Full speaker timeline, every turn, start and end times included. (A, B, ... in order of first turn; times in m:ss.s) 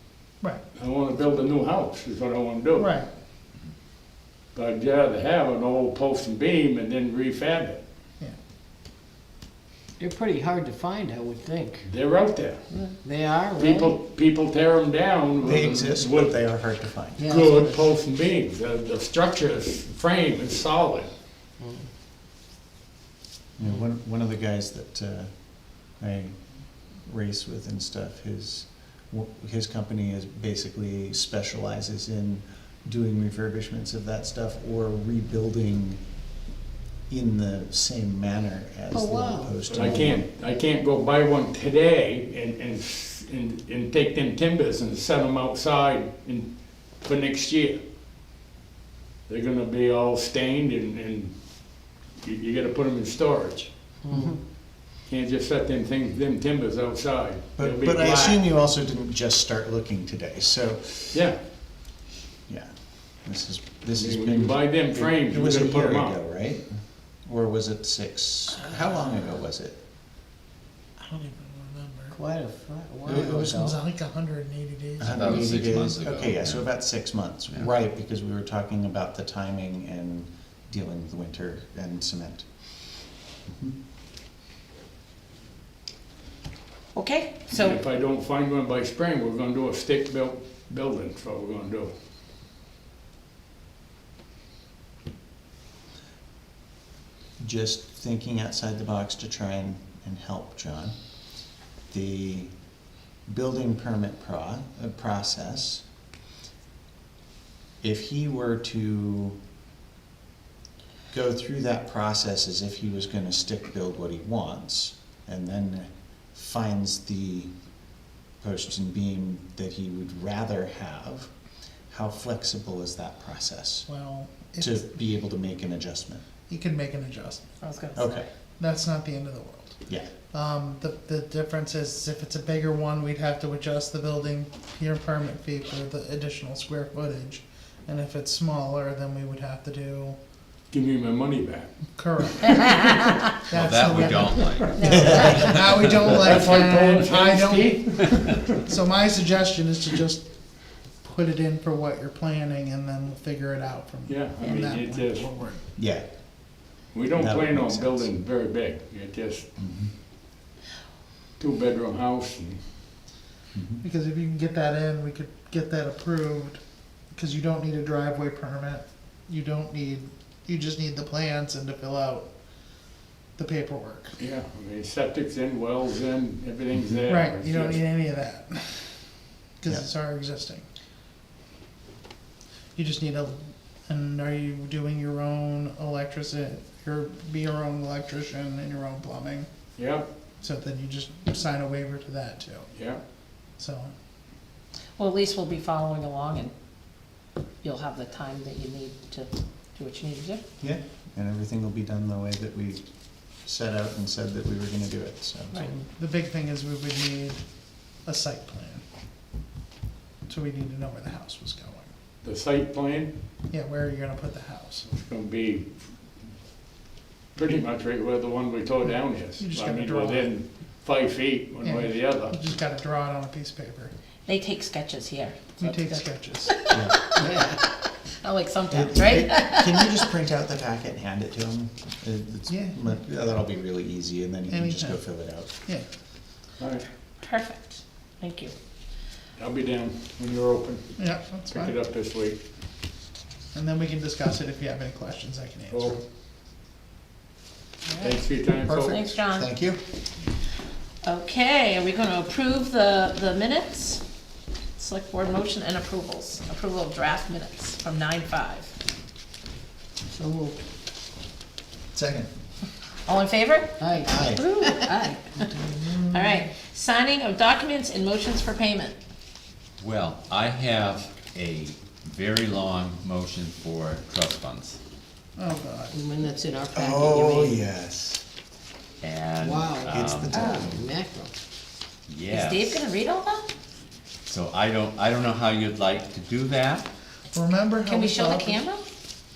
0:00.8-0:02.9 A
0:02.7-0:03.1 B
0:04.5-0:07.8 A
0:10.0-0:11.9 C
0:11.8-0:12.7 A
0:12.7-0:14.0 C
0:13.5-0:16.4 A
0:15.4-0:17.2 D
0:17.2-0:17.7 C
0:17.2-0:21.1 A
0:21.6-0:21.8 C
0:23.6-0:26.4 D
0:27.0-0:36.0 D
0:37.1-0:40.2 D
0:38.9-0:39.6 C
0:39.7-0:47.8 A
0:49.3-0:53.7 A
0:54.1-0:54.4 C
0:55.0-0:58.4 A
0:57.6-1:01.1 D
1:01.1-1:01.4 A
1:02.5-1:09.8 D
1:04.0-1:06.2 A
1:11.0-1:12.1 B
1:12.1-1:13.8 C
1:13.1-1:15.4 B
1:13.1-1:13.6 D
1:15.0-1:22.5 D
1:15.1-1:16.7 E
1:23.5-1:23.8 D
1:26.9-1:27.8 F
1:27.5-1:31.9 A
1:37.4-1:41.0 D
1:41.9-1:42.5 D
1:43.3-1:45.8 D
1:47.8-1:49.4 D
1:51.1-1:57.5 D
1:58.4-2:01.3 D
2:01.9-2:03.9 D
2:03.9-2:04.8 B
2:04.6-2:06.2 D
2:06.5-2:07.5 B
2:07.6-2:08.2 F
2:08.0-2:08.3 D
2:08.6-2:20.2 B
2:20.7-2:22.9 A
2:21.9-2:22.9 B
2:23.4-2:35.6 B
2:23.5-2:25.5 E
2:24.7-2:25.5 F
2:26.2-2:28.6 A
2:34.1-2:35.3 A
2:35.8-2:36.1 D
2:36.9-2:39.5 A
2:37.1-2:38.1 D
2:39.6-2:39.9 D
2:41.4-2:42.7 A
2:43.5-2:43.8 D
2:43.8-2:46.6 B
2:47.1-2:52.3 B
2:53.4-2:54.2 B
2:54.2-2:57.8 A
2:57.1-2:59.0 B
2:59.6-3:00.6 B
3:02.7-3:09.5 B
3:09.8-3:10.1 A
3:10.4-3:12.7 B
3:12.7-3:13.0 A
3:13.6-3:13.9 B
3:15.0-3:16.5 F
3:17.6-3:20.4 F
3:20.6-3:25.7 D
3:25.5-3:27.4 B
3:28.0-3:28.8 B
3:30.2-3:31.9 B
3:32.2-3:33.1 A
3:33.5-3:34.9 B
3:34.9-3:35.7 A
3:37.3-3:42.4 A
3:39.4-3:40.3 B
3:41.6-3:43.9 B
3:44.2-3:47.2 F
3:45.6-3:46.5 B
3:46.7-3:47.0 D
3:47.2-3:47.6 C
3:48.2-3:49.9 F
3:48.7-3:55.5 D
3:52.5-3:52.8 B
3:54.5-3:55.0 B
3:56.6-3:56.8 A
3:57.2-3:58.5 F
3:59.4-4:02.4 A
4:01.0-4:01.7 B
4:03.5-4:06.0 B
4:05.7-4:06.0 A
4:07.9-4:08.1 F
4:08.0-4:09.0 A
4:08.6-4:09.8 D
4:08.8-4:09.5 F
4:11.0-4:14.0 F
4:14.8-4:18.8 F
4:20.1-4:20.6 C
4:21.9-4:22.3 D
4:23.0-4:25.5 F
4:23.8-4:25.2 C
4:24.1-4:24.4 D
4:26.1-4:29.0 F
4:29.8-4:34.8 E
4:35.4-4:36.1 B
4:35.9-4:37.6 C
4:36.7-4:38.2 D
4:39.0-4:40.6 E
4:39.4-4:41.3 C
4:39.8-4:40.9 D
4:40.3-4:40.7 F
4:42.1-4:42.8 E
4:42.3-4:43.4 F
4:44.2-4:46.8 E
4:47.3-4:48.6 B
4:47.9-4:48.8 F